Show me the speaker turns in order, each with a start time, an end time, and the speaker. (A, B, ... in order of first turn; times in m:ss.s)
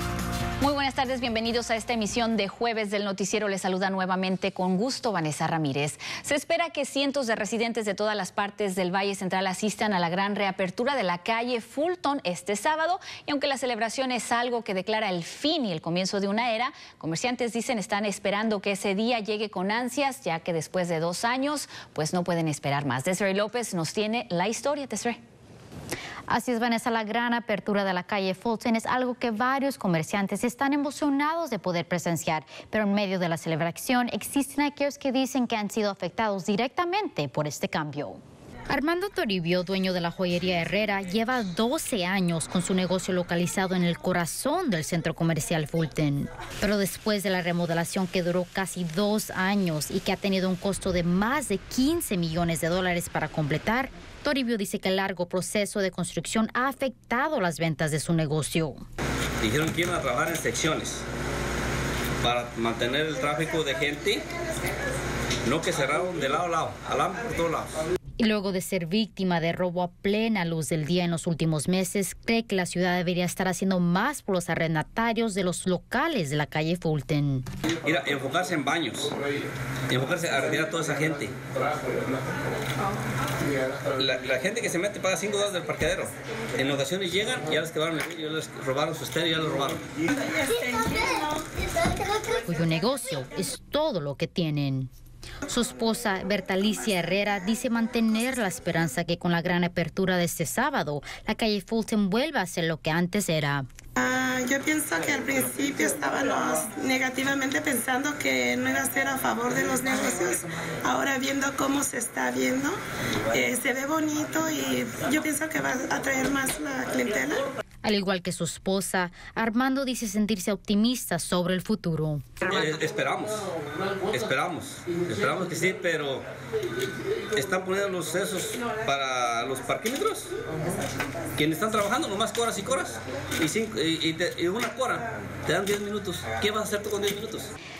0:00.6-0:25.2 A
0:26.3-0:58.8 B
0:59.4-1:01.0 C
1:02.2-1:04.3 C
1:05.4-1:07.8 C
1:08.2-1:17.4 B
1:17.8-1:19.2 C
1:19.9-1:21.5 C
1:23.9-1:29.8 C
1:30.2-1:31.2 D
1:32.4-1:34.9 B
1:35.5-1:43.6 B
1:44.0-1:52.8 D
1:53.3-1:57.5 D
1:57.8-2:02.4 B
2:02.4-2:03.5 C
2:04.1-2:06.2 C
2:07.3-2:10.3 C
2:11.4-2:17.5 C